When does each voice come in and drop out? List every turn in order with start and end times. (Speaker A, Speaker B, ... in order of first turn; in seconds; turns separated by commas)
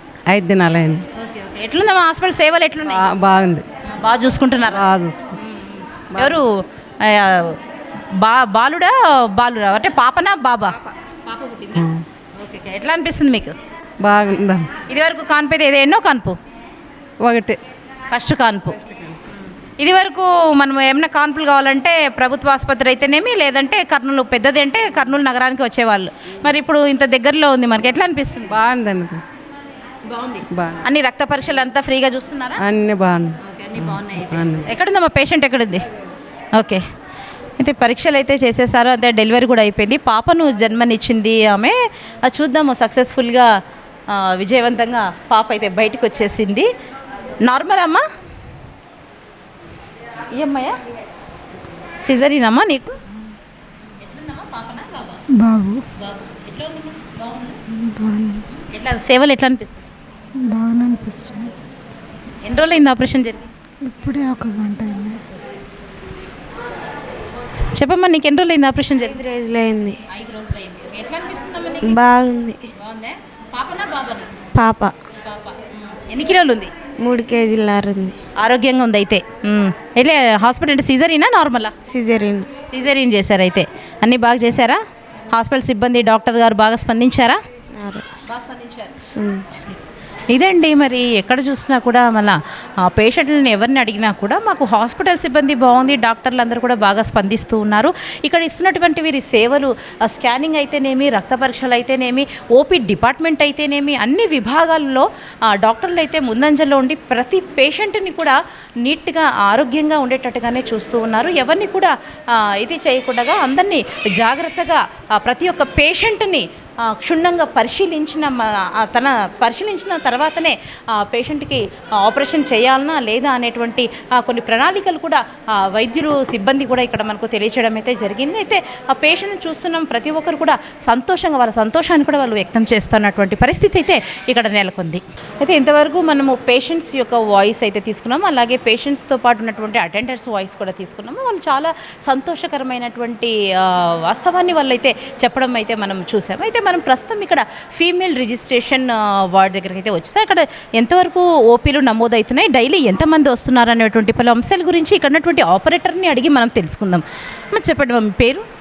Speaker A: 0.3-1.0, Speaker B: 1.1-3.0, Speaker A: 2.9-3.6, Speaker B: 3.9-4.8, Speaker A: 4.7-5.4, Speaker B: 5.4-7.6, Speaker A: 6.1-6.4, Speaker B: 8.1-11.8, Speaker A: 11.7-12.0, Speaker B: 12.3-13.5, Speaker A: 14.0-14.7, Speaker B: 14.9-16.4, Speaker A: 17.2-17.6, Speaker B: 18.1-18.8, Speaker A: 18.8-19.1, Speaker B: 19.8-28.5, Speaker A: 28.5-29.2, Speaker B: 30.1-32.6, Speaker A: 30.5-30.8, Speaker A: 32.6-34.7, Speaker B: 33.4-35.8, Speaker B: 36.5-36.8, Speaker B: 37.6-43.5, Speaker B: 44.1-46.7, Speaker B: 47.4-48.0, Speaker B: 50.3-50.8, Speaker B: 52.0-53.0, Speaker B: 54.0-55.2, Speaker C: 55.3-55.8, Speaker B: 56.0-57.6, Speaker C: 57.7-58.4, Speaker B: 58.5-59.8, Speaker C: 60.4-61.5, Speaker B: 62.4-63.5, Speaker C: 63.8-65.2, Speaker B: 67.7-69.2, Speaker C: 69.1-70.0, Speaker B: 70.1-72.0, Speaker C: 71.8-72.6, Speaker B: 72.7-74.4, Speaker C: 74.5-74.9, Speaker B: 75.2-76.7, Speaker C: 77.0-78.2, Speaker B: 78.4-81.7, Speaker C: 81.9-82.5, Speaker B: 82.7-84.8, Speaker B: 85.3-87.4, Speaker C: 87.7-88.0, Speaker B: 88.3-88.9, Speaker C: 89.0-89.8, Speaker B: 90.3-158.4